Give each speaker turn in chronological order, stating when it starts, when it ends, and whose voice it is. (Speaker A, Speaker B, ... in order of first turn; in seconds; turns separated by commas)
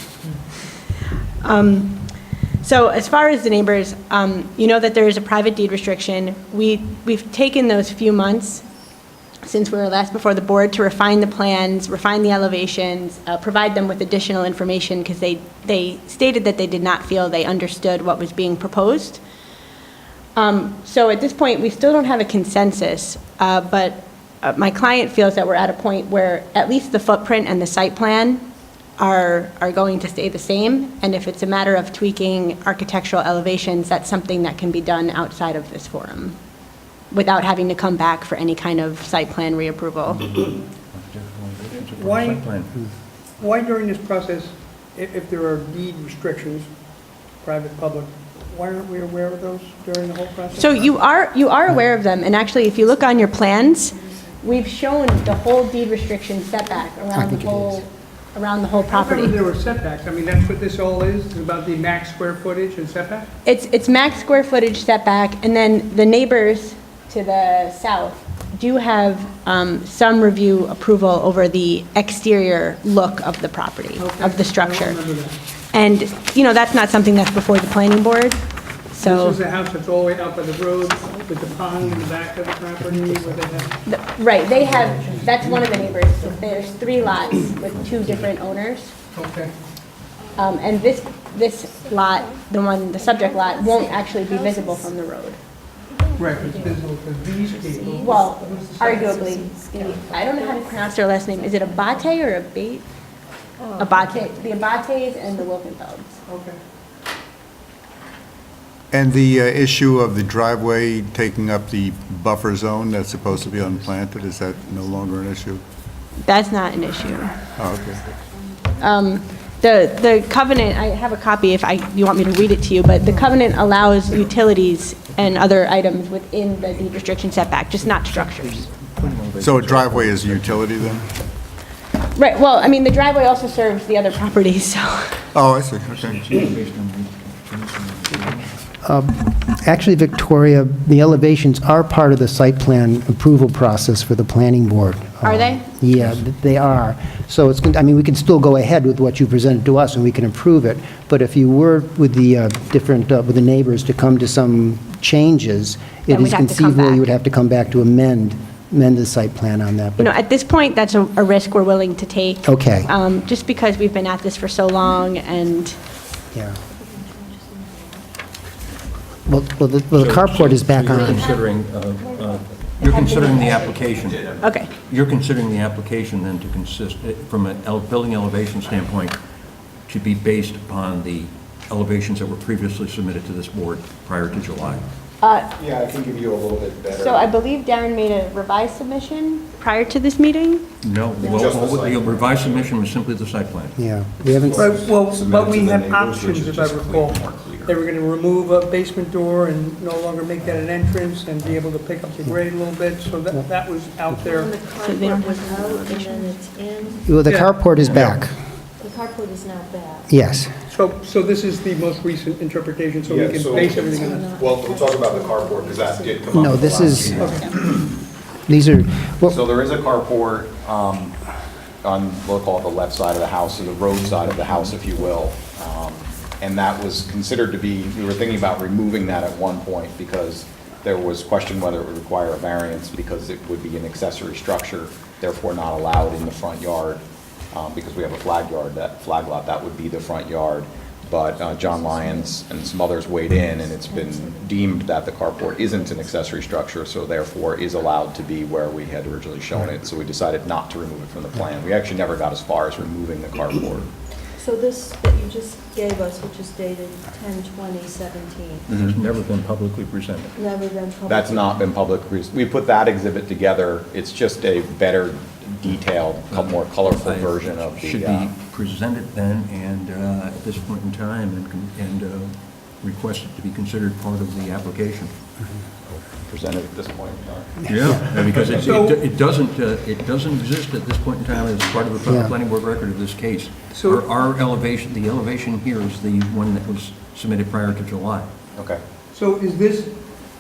Speaker A: 1.4-8.6, Speaker A: 9.4-19.2, Speaker A: 20.4-28.4, Speaker A: 29.0-36.4, Speaker A: 37.1-40.3, Speaker B: 40.9-42.8, Speaker C: 41.9-42.5, Speaker C: 43.4-46.7, Speaker C: 47.4-50.9, Speaker A: 50.5-59.4, Speaker D: 57.1-57.9, Speaker C: 58.9-63.3, Speaker A: 63.5-75.0, Speaker C: 74.0-75.4, Speaker A: 75.7-79.4, Speaker C: 79.0-83.8, Speaker D: 82.8-83.6, Speaker A: 83.9-89.0, Speaker C: 84.6-85.8, Speaker E: 86.2-87.3, Speaker B: 87.7-88.3, Speaker C: 89.1-89.5, Speaker E: 90.2-90.5, Speaker A: 90.4-95.4, Speaker E: 96.0-102.2, Speaker C: 96.2-99.2, Speaker A: 98.0-102.9, Speaker E: 103.6-104.7, Speaker A: 103.8-106.2, Speaker C: 106.3-106.6, Speaker F: 108.9-115.6, Speaker E: 114.6-115.1, Speaker A: 116.2-117.4, Speaker E: 116.9-118.8, Speaker F: 117.6-118.0, Speaker A: 118.8-128.7, Speaker B: 127.8-130.9, Speaker F: 129.4-131.1, Speaker A: 132.2-135.2, Speaker F: 135.3-136.2, Speaker B: 135.9-138.7, Speaker D: 138.8-160.1, Speaker A: 145.2-145.7, Speaker B: 146.0-146.2, Speaker A: 156.1-157.1, Speaker A: 160.0-165.8, Speaker D: 162.4-162.9, Speaker D: 166.3-166.6, Speaker E: 166.8-168.1, Speaker D: 169.3-171.3, Speaker B: 169.9-179.2, Speaker A: 170.9-171.4, Speaker A: 172.8-173.9, Speaker G: 174.0-174.4, Speaker A: 174.4-174.7, Speaker B: 179.9-184.9, Speaker A: 185.2-185.5, Speaker G: 185.6-187.3, Speaker A: 186.9-190.7, Speaker B: 190.8-193.8, Speaker G: 191.2-192.7, Speaker D: 193.8-194.8, Speaker G: 194.4-197.8, Speaker C: 194.6-204.5, Speaker E: 204.2-207.2, Speaker A: 204.8-206.4, Speaker D: 207.1-208.3, Speaker C: 207.2-207.5, Speaker B: 207.7-208.2, Speaker E: 208.8-210.1, Speaker D: 210.1-210.5, Speaker C: 210.7-214.3, Speaker G: 213.1-217.9, Speaker E: 213.4-217.5, Speaker D: 216.3-217.4, Speaker C: 217.1-217.5, Speaker D: 218.5-219.4, Speaker G: 219.3-221.2, Speaker G: 221.8-253.9, Speaker B: 224.1-225.1, Speaker E: 241.4-242.4, Speaker E: 243.5-246.1, Speaker E: 254.4-258.7, Speaker G: 258.7-259.0, Speaker B: 258.7-260.3, Speaker E: 260.4-261.7, Speaker G: 261.1-268.3, Speaker B: 266.3-275.1, Speaker G: 275.9-278.7, Speaker B: 277.7-288.3, Speaker C: 278.5-279.0, Speaker D: 282.1-282.3, Speaker C: 283.7-284.1, Speaker G: 288.6-288.8, Speaker C: 289.1-289.9